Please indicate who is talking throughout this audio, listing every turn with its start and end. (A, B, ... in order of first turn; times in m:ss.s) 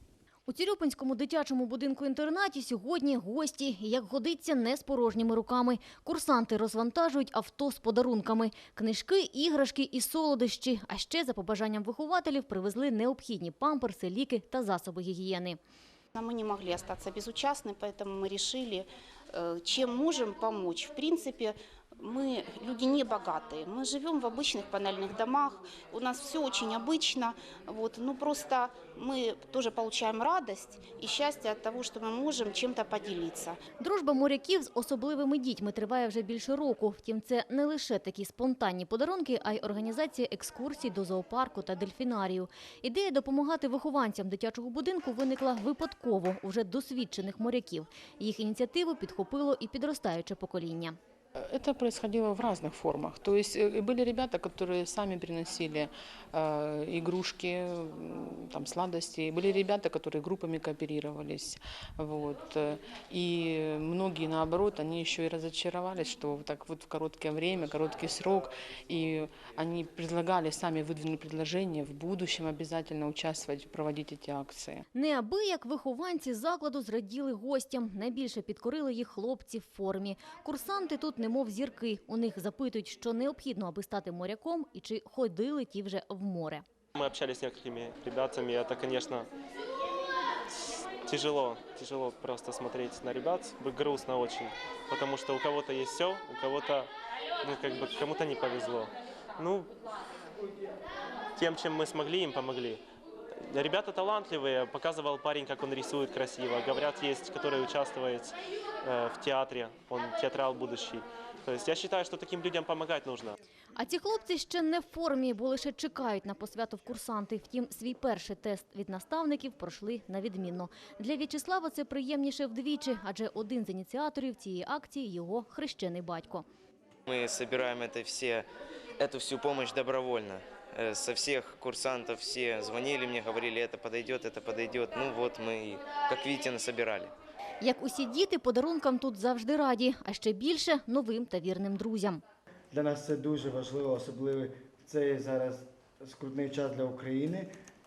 0:00.5-0:15.6 A
0:16.2-0:33.6 B
0:33.8-0:51.0 A
0:51.4-1:14.8 C
1:14.9-1:26.6 A
1:27.0-1:29.3 D
1:31.0-1:36.9 D
1:37.4-1:39.7 D
1:41.4-1:42.8 D
1:43.5-1:53.4 D
1:53.8-2:06.4 A
2:07.1-2:08.5 E
2:09.0-2:17.1 E
2:17.6-2:22.2 A
2:22.7-2:27.5 F